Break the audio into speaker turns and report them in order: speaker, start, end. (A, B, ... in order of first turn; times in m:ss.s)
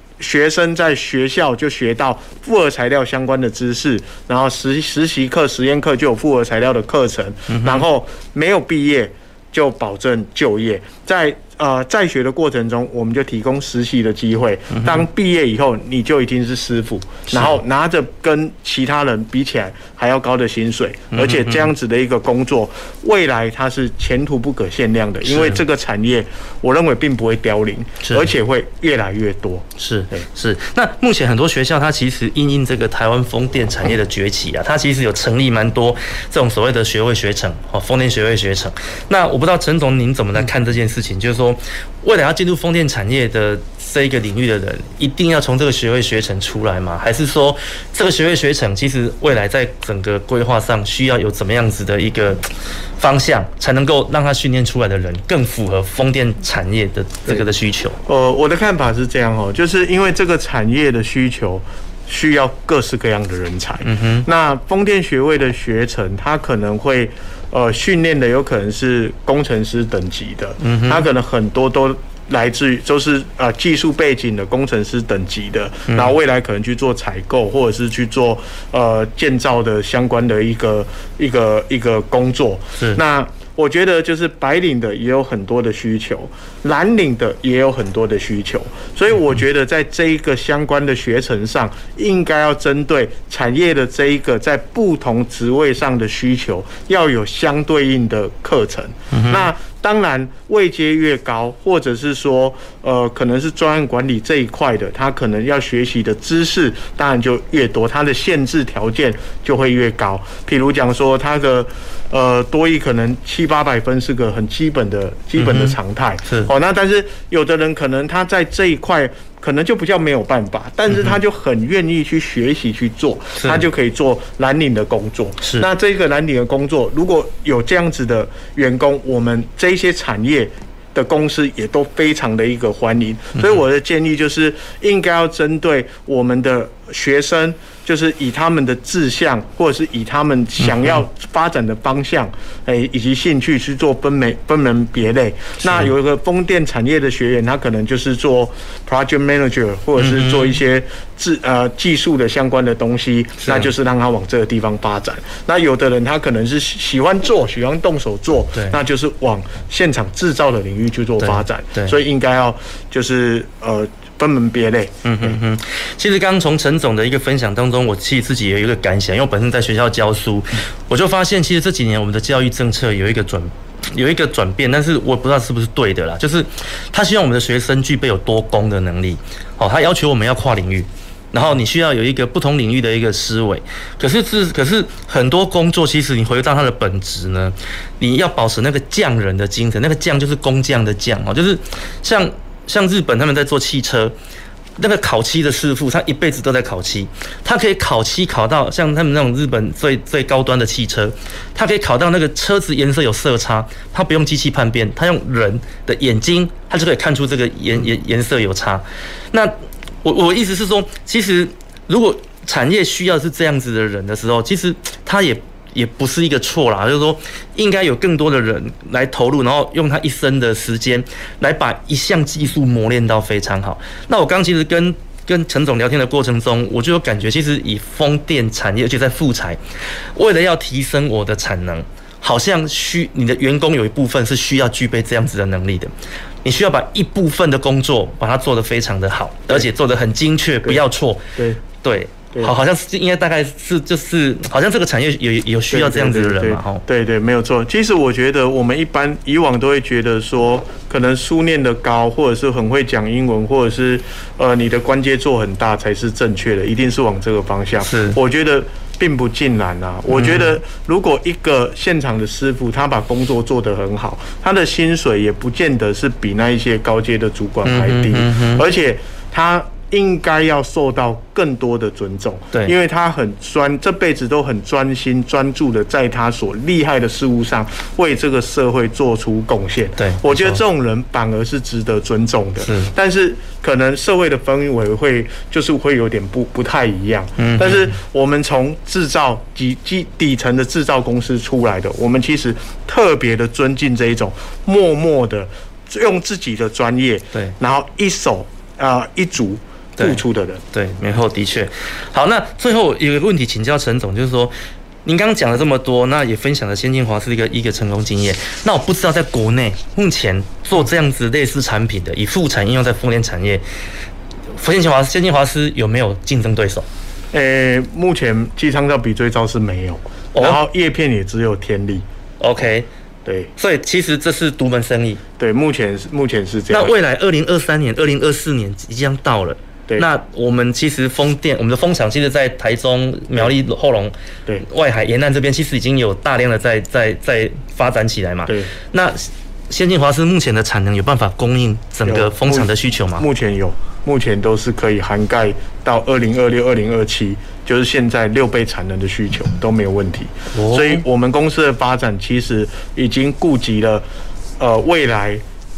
0:00.2-0:30.3 A
0:07.5-0:07.8 B
0:14.7-0:15.1 B
0:17.3-0:17.6 B
0:21.1-0:21.7 B
0:25.2-0:25.6 B
0:28.0-0:28.3 B
0:29.8-0:52.5 B
0:53.0-0:58.0 B
0:58.1-2:45.4 A
1:03.8-1:04.3 B
1:10.6-1:11.0 B
1:39.1-1:39.5 B
1:55.4-1:56.5 B
2:00.9-2:01.2 B
2:03.4-2:03.7 B
2:05.4-2:05.7 B
2:20.6-2:20.9 B
2:25.6-2:25.9 B
2:30.0-2:30.6 B
2:33.4-2:33.7 B
2:41.2-2:42.0 B
2:45.0-3:14.1 B
3:14.8-3:49.6 B
3:50.1-3:55.9 B
3:56.4-4:01.2 B
4:01.4-4:01.6 A
4:01.8-4:06.8 B
4:05.7-5:00.6 A
4:17.8-4:18.2 B
4:20.1-4:20.6 B
4:27.6-4:28.6 B
4:40.0-4:40.6 B
4:42.6-4:42.9 B
4:47.4-4:48.0 B
5:00.0-5:04.5 B
5:05.0-5:13.6 B
5:14.5-5:16.9 B
5:17.3-5:22.0 A
5:20.3-5:20.6 B
5:22.4-5:22.9 B
5:23.2-5:23.5 A
5:23.6-5:25.2 B
5:25.4-5:27.0 A
5:26.7-5:34.1 B
5:34.6-5:43.3 B
5:38.5-5:38.7 A
5:42.1-5:54.0 A
5:50.5-5:51.0 B
5:54.6-5:55.4 A